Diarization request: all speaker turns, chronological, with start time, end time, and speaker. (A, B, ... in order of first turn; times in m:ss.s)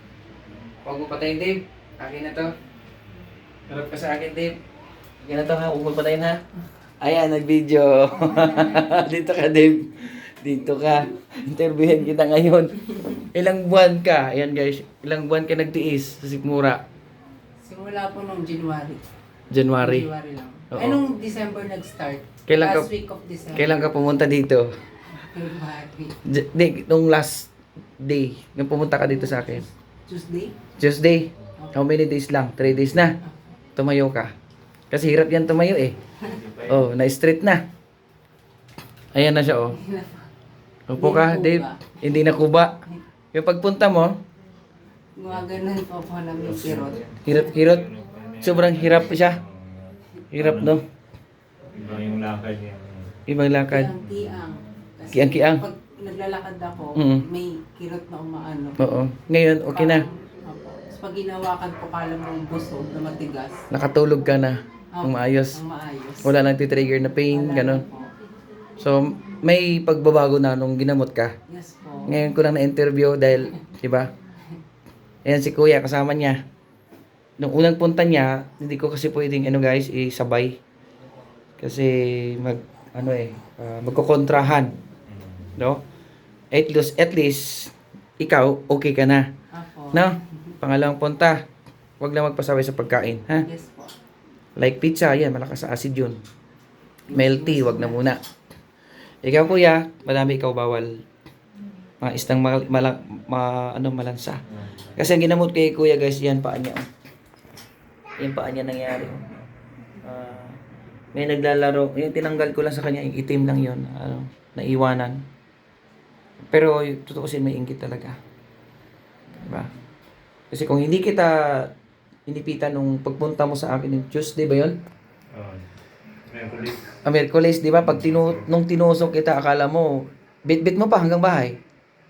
0:00.8-0:02.5 A
0:03.7-0:04.6 A
0:05.2-0:06.4 A
0:07.0-0:16.8 A
0:17.6-0:19.0 B
0:19.5-0:20.1 A
0:19.8-0:24.0 B
0:20.7-0:21.0 A
0:22.5-0:22.9 A
0:23.5-0:24.7 A
0:25.1-0:26.2 B
0:26.2-0:29.6 A
0:29.0-0:30.6 B
0:30.8-0:33.2 A
0:33.8-0:34.3 A
0:34.9-0:36.0 A
0:36.2-0:36.9 C
0:36.7-0:37.6 A
0:39.1-0:39.8 A
0:39.8-0:40.3 B
0:40.9-0:44.1 A
0:41.0-0:42.0 B
0:45.2-0:47.4 B
0:46.4-0:50.8 C
0:47.2-0:47.8 A
0:48.4-0:49.4 A
0:50.3-0:50.8 A
0:51.7-0:53.2 C
0:53.3-0:53.9 A
0:53.7-0:58.8 B
0:55.1-0:55.6 A
0:57.0-0:57.2 A
0:58.8-1:00.1 A
0:59.7-1:03.7 B
1:03.7-1:05.6 A
1:05.0-1:06.4 B
1:06.2-1:07.8 A
1:07.3-1:08.1 B
1:08.8-1:11.3 A
1:11.5-1:12.2 B
1:12.1-1:14.1 A
1:15.2-1:16.4 A
1:17.4-1:20.6 A
1:21.6-1:24.7 A
1:25.1-1:25.6 C
1:26.5-1:29.3 A
1:29.5-1:30.5 B
1:29.9-1:31.4 A
1:32.0-1:33.5 A
1:33.4-1:33.9 B
1:34.6-1:36.2 A
1:37.1-1:38.0 B
1:37.1-1:38.2 A
1:39.2-1:41.0 A
1:42.0-1:46.9 A
1:48.2-1:49.2 A
1:50.0-1:50.6 A
1:51.1-1:55.2 A
1:56.5-1:58.2 A
1:59.4-1:59.7 A
2:00.5-2:01.7 A
2:02.3-2:04.8 A
2:05.3-2:07.0 C
2:07.0-2:11.6 A
2:07.8-2:08.4 C